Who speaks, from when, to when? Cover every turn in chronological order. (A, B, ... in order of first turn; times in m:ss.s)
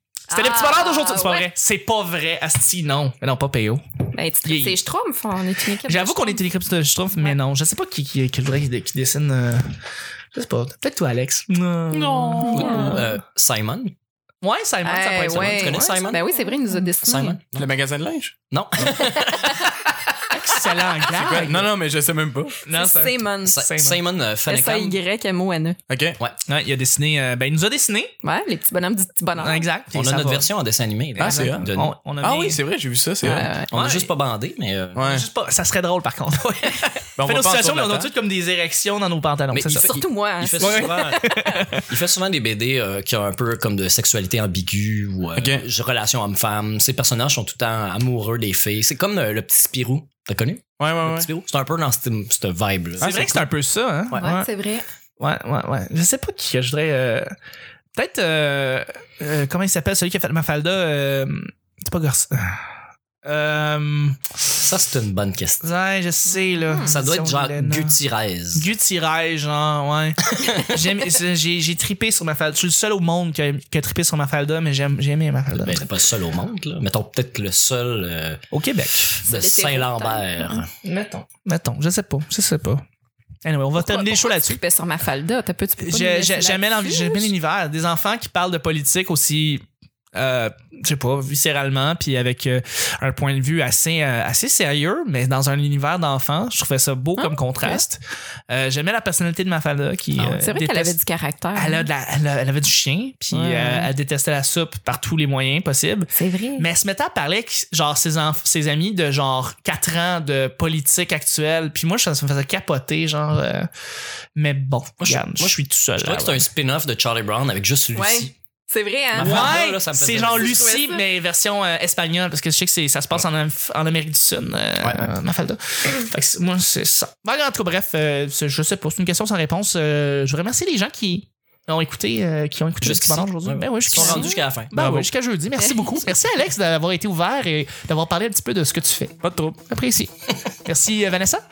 0:00.3-0:01.5 A
0:00.3-0:03.8 B
0:04.1-0:06.4 A
0:04.4-0:04.8 B
0:05.8-0:09.8 B
0:10.3-0:13.0 B
0:11.9-0:13.0 C
0:12.4-0:13.0 A
0:12.4-0:13.9 D
0:14.4-0:16.1 B
0:14.8-0:17.4 A
0:15.3-0:16.2 D
0:17.0-0:17.6 D
0:17.5-0:18.3 C
0:18.5-0:19.7 D
0:18.8-0:19.7 A
0:20.3-0:21.7 B
0:21.1-0:22.6 C
0:22.6-0:24.0 B
0:22.7-0:23.6 A
0:23.4-0:25.0 D
0:24.5-0:25.8 A
0:25.9-0:26.2 C
0:26.4-0:28.1 B
0:28.2-0:29.6 A
0:29.4-0:30.5 B
0:29.9-0:31.9 D
0:31.2-0:32.6 B
0:31.2-0:31.6 C
0:32.2-0:33.5 C
0:33.2-0:33.7 A
0:33.7-0:35.0 D
0:33.7-0:34.1 B
0:34.9-0:35.2 C
0:35.0-0:39.9 B
0:37.2-0:38.1 C
0:39.5-0:53.4 D
0:39.7-0:41.6 A
0:40.6-0:41.9 B
0:45.4-0:45.6 C
0:50.8-0:51.3 C
0:53.0-0:53.4 C
0:53.0-0:54.5 B
0:54.2-0:54.8 A
0:55.2-0:57.3 B
0:58.0-1:02.7 B
1:03.2-1:04.3 B
1:04.5-1:05.6 D
1:05.6-1:08.0 B
1:06.6-1:06.9 A
1:06.8-1:08.7 D
1:08.5-1:15.8 B
1:10.4-1:10.7 D
1:15.6-1:18.4 D
1:18.5-1:19.2 B
1:19.1-1:20.7 D
1:19.2-1:20.6 A
1:20.8-1:22.8 B
1:23.4-1:24.6 B
1:23.8-1:27.3 A
1:25.8-1:41.0 B
1:37.2-1:37.8 A
1:40.2-1:41.9 A
1:41.5-1:53.7 B
1:43.3-1:43.9 A
1:46.1-1:46.6 A
1:54.4-1:56.4 B
1:55.0-1:58.3 D
1:57.9-1:59.6 A
1:59.1-2:00.7 D
1:59.2-2:19.2 B
2:00.3-2:01.0 A
2:12.8-2:15.0 D
2:13.9-2:14.4 A
2:14.7-2:15.0 C
2:15.6-2:16.1 A
2:19.2-2:19.6 C
2:19.7-2:20.1 B
2:20.6-2:21.4 B